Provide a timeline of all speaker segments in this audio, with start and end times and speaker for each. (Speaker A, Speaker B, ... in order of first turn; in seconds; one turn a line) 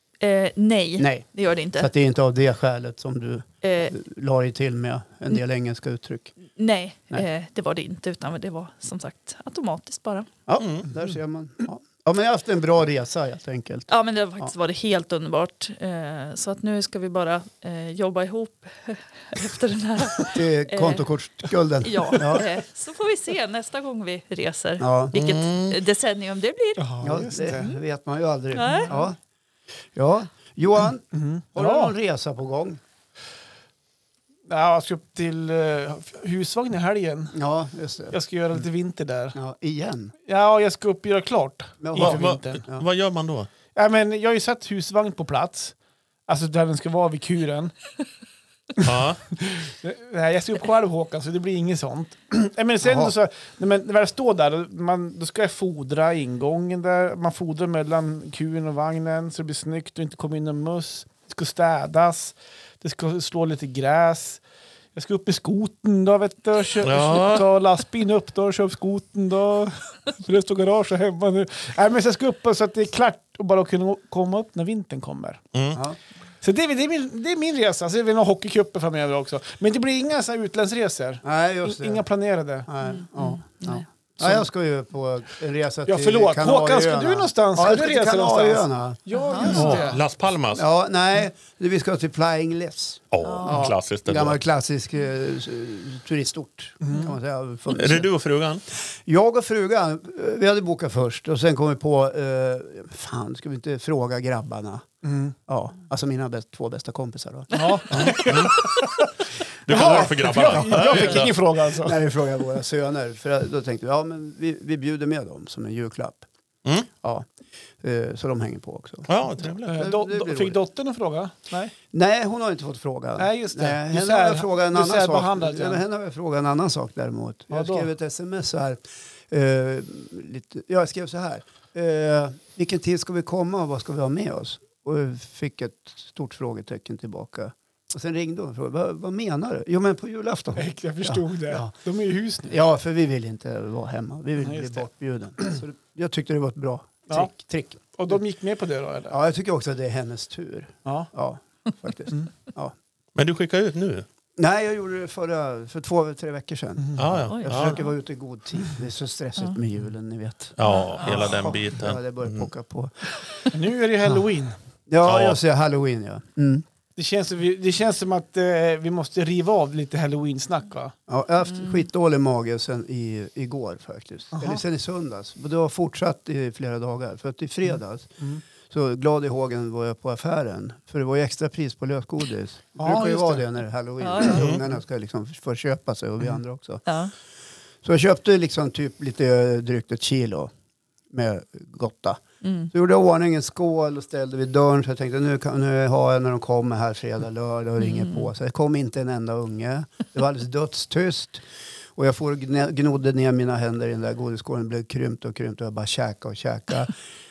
Speaker A: 0.2-1.9
Speaker B: 1.0-1.3
Speaker B: 1.8-6.3
Speaker A: 3.6-3.9
Speaker A: 6.5-10.3
Speaker B: 10.5-14.5
Speaker C: 10.6-10.9
Speaker A: 13.9-21.1
Speaker B: 20.2-22.5
Speaker A: 21.8-26.8
Speaker B: 24.8-25.1
Speaker C: 25.1-25.8
Speaker D: 26.8-27.7
Speaker B: 27.0-29.2
Speaker A: 27.4-27.8
Speaker A: 28.5-29.0
Speaker D: 28.7-29.0
Speaker B: 29.9-32.8
Speaker D: 31.1-31.9
Speaker D: 34.5-37.4
Speaker B: 37.3-38.2
Speaker D: 38.1-39.4
Speaker B: 39.3-40.1
Speaker D: 40.2-42.6
Speaker B: 41.8-42.8
Speaker C: 41.9-43.5
Speaker D: 43.7-45.7
Speaker D: 46.3-47.7
Speaker D: 48.8-64.4
Speaker C: 48.8-49.2
Speaker B: 52.8-53.1
Speaker D: 64.9-75.4
Speaker C: 66.8-67.5
Speaker C: 75.5-75.8
Speaker D: 76.4-82.7
Speaker B: 81.2-82.0
Speaker B: 82.7-90.0
Speaker A: 82.8-83.8
Speaker D: 84.2-84.4
Speaker D: 85.9-90.0
Speaker A: 89.1-89.8
Speaker C: 89.5-90.6
Speaker B: 90.5-98.1
Speaker C: 93.1-94.4
Speaker A: 93.2-93.7
Speaker D: 96.8-97.1
Speaker C: 97.7-98.6
Speaker B: 99.0-104.8
Speaker D: 105.0-105.3
Speaker B: 105.5-108.6
Speaker D: 107.5-109.1
Speaker A: 107.5-107.8
Speaker C: 107.9-108.8
Speaker C: 109.6-111.3
Speaker D: 109.7-112.0
Speaker B: 109.8-116.3
Speaker B: 117.0-117.3
Speaker B: 117.8-120.6
Speaker C: 119.1-119.8
Speaker D: 119.7-121.7
Speaker B: 121.9-141.7
Speaker D: 123.2-125.8
Speaker D: 127.5-127.9
Speaker D: 140.6-142.6
Speaker B: 142.4-147.8
Speaker D: 144.4-144.8
Speaker D: 147.9-149.2
Speaker B: 149.1-152.7
Speaker C: 153.1-154.1
Speaker B: 154.4-163.4
Speaker D: 156.8-157.1
Speaker C: 156.9-157.8
Speaker A: 157.3-157.9
Speaker C: 160.6-162.5
Speaker A: 160.6-161.2
Speaker D: 163.5-164.6
Speaker B: 164.9-166.6
Speaker C: 165.0-165.4
Speaker D: 166.9-170.9
Speaker B: 171.1-178.2
Speaker D: 174.3-174.6
Speaker B: 178.7-186.8
Speaker D: 182.8-183.4
Speaker A: 184.0-184.4
Speaker C: 184.3-184.6
Speaker A: 186.8-187.1
Speaker B: 187.8-190.5
Speaker B: 191.1-192.2
Speaker A: 192.4-192.7
Speaker B: 192.7-201.4
Speaker A: 197.8-198.3
Speaker B: 201.9-206.9